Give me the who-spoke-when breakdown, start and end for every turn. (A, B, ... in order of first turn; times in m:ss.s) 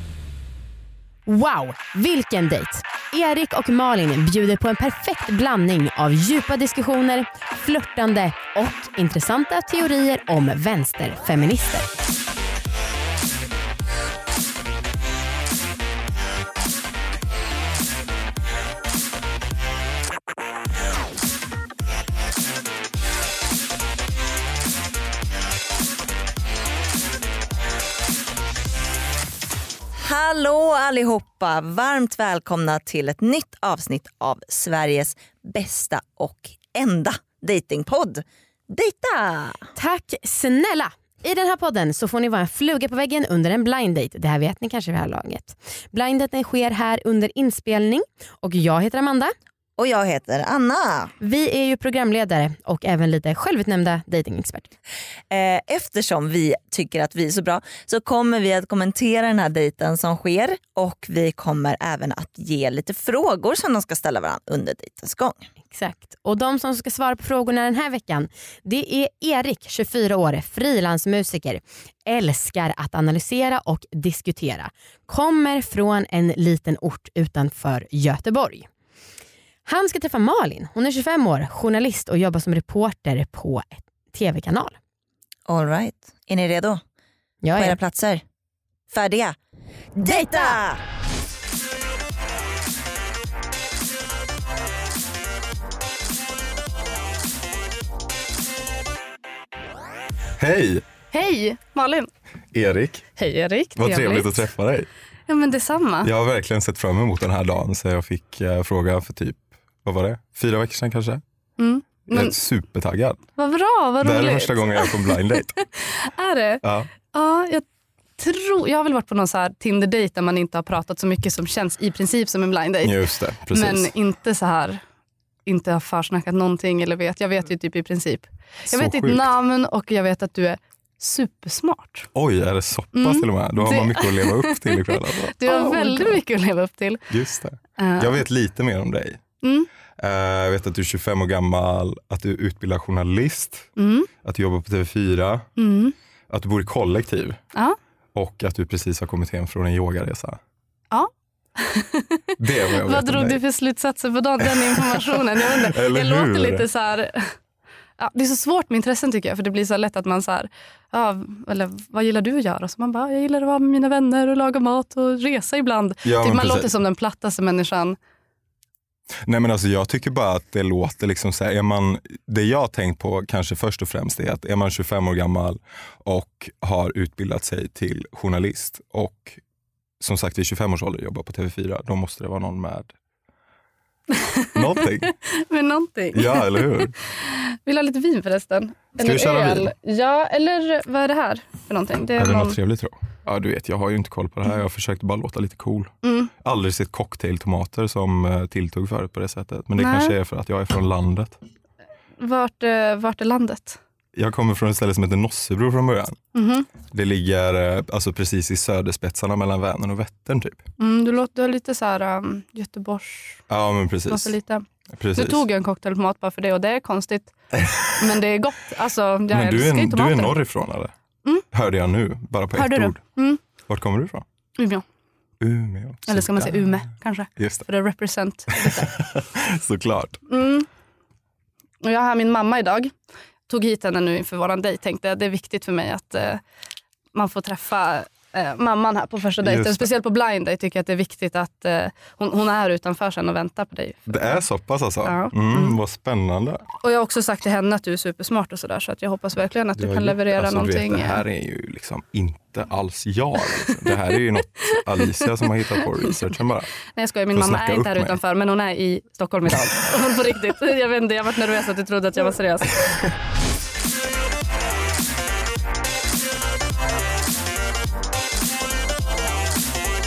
0:01.3-0:11.8 A
0:30.0-0:39.6 B
0:39.7-0:49.3 A
0:49.8-0:51.1 B
0:51.2-0:54.7 A
0:55.3-1:05.5 B
1:05.7-1:18.7 A
1:19.6-1:24.8 A
1:25.5-1:26.8 B
1:27.4-1:27.8 A
1:27.5-1:28.2 B
1:28.9-1:29.4 B
1:30.0-1:30.8 B
1:30.0-1:30.6 A
1:40.4-1:40.8 C
1:41.1-1:42.1 D
1:42.5-1:43.1 C
1:43.2-1:44.4 D
1:43.8-1:44.9 C
1:45.3-1:46.1 D
1:46.0-1:51.2 C
1:51.6-1:52.3 D
1:52.1-1:53.2 C
1:53.4-1:57.6 D
1:54.0-1:55.6 C
1:56.6-1:56.9 C
1:58.2-2:04.8 D
2:02.8-2:03.9 C
2:05.4-2:12.1 D
2:08.7-2:09.3 C
2:12.1-2:16.2 C
2:12.9-2:17.1 D
2:17.1-2:19.2 C
2:17.8-2:18.2 D
2:19.4-2:19.7 D
2:20.0-2:23.7 C
2:23.8-2:24.1 D
2:24.2-2:25.5 C
2:25.6-2:25.9 D
2:26.3-2:27.4 C
2:28.1-2:30.4 C
2:30.9-2:37.3 D
2:32.4-2:33.4 C
2:34.4-2:36.6 C
2:38.0-2:48.0 D
2:46.0-2:46.7 C
2:49.2-2:59.4 C
3:00.0-3:02.9 C
3:04.1-3:04.7 D
3:04.5-3:05.1 C
3:05.3-3:12.6 D
3:06.1-3:06.9 C
3:09.0-3:09.7 C
3:12.2-3:21.4 C
3:16.0-3:16.3 D
3:19.8-3:20.2 D
3:22.2-3:23.8 D
3:24.1-3:26.2 C
3:26.3-3:26.7 D
3:26.9-3:30.6 C
3:30.8-3:33.4 D
3:33.5-3:34.3 C
3:34.1-3:34.6 D
3:34.9-3:35.4 C
3:35.1-3:37.3 D
3:37.9-3:40.4 D
3:39.3-3:40.9 C
3:41.5-3:43.0 C
3:42.5-3:43.4 D
3:43.7-3:44.2 C
3:44.6-3:44.8 D
3:45.4-3:46.8 C
3:46.1-3:48.9 D
3:47.4-3:47.7 C
3:48.6-3:50.2 C
3:50.3-3:50.7 D
3:51.8-3:52.9 D
3:53.5-3:56.4 D
3:57.1-4:04.3 D
3:59.4-3:59.9 C
4:04.1-4:06.6 C
4:05.0-4:05.8 D
4:06.8-4:11.2 D
4:09.7-4:16.7 C
4:14.7-4:16.2 D
4:16.9-4:22.8 D
4:17.3-4:18.2 C